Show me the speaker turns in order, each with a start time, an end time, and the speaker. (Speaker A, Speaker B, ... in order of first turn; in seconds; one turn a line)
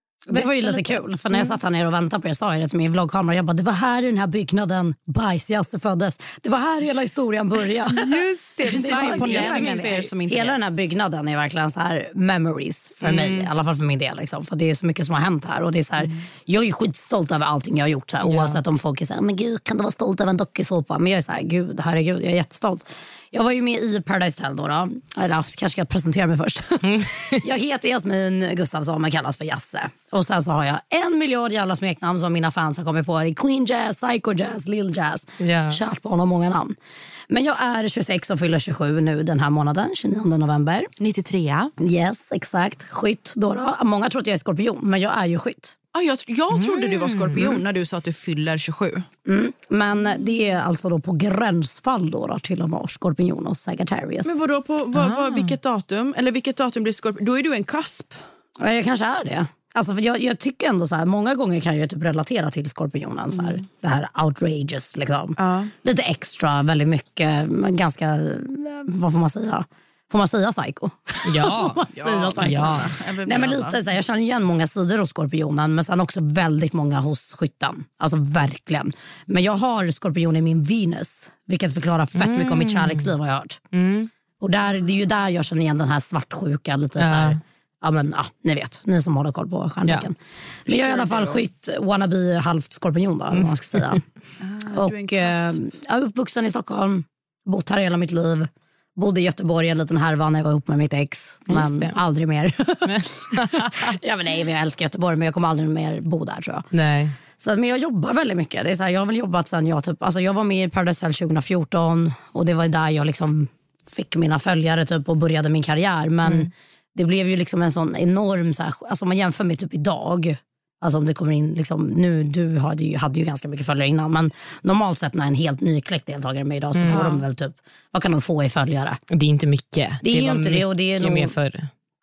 Speaker A: 0.3-36.8
Speaker B: 0.3-1.5
Speaker C: 7.9-10.6
Speaker B: 8.3-10.1
Speaker B: 13.0-13.5
Speaker B: 18.2-18.6
Speaker B: 26.8-27.4
Speaker B: 35.4-35.8
Speaker A: 37.3-40.9
Speaker C: 41.0-41.7
Speaker A: 41.8-45.8
Speaker C: 45.9-49.1
Speaker B: 46.5-47.6
Speaker A: 49.2-54.4
Speaker C: 54.2-58.2
Speaker B: 55.0-55.5
Speaker A: 58.6-83.6
Speaker C: 65.4-65.7
Speaker B: 71.2-71.8
Speaker C: 71.9-73.8
Speaker B: 72.4-72.9
Speaker B: 82.1-83.1
Speaker B: 83.7-84.1
Speaker A: 84.4-94.0
Speaker B: 87.0-87.4
Speaker C: 90.7-91.3
Speaker B: 93.3-94.0
Speaker C: 94.4-95.5
Speaker A: 94.7-106.7
Speaker B: 101.5-102.0
Speaker B: 102.8-103.8
Speaker B: 106.7-107.2
Speaker A: 107.4-129.0
Speaker B: 116.2-116.5
Speaker B: 126.7-127.0
Speaker C: 126.9-127.2
Speaker B: 129.1-131.7
Speaker A: 130.0-131.3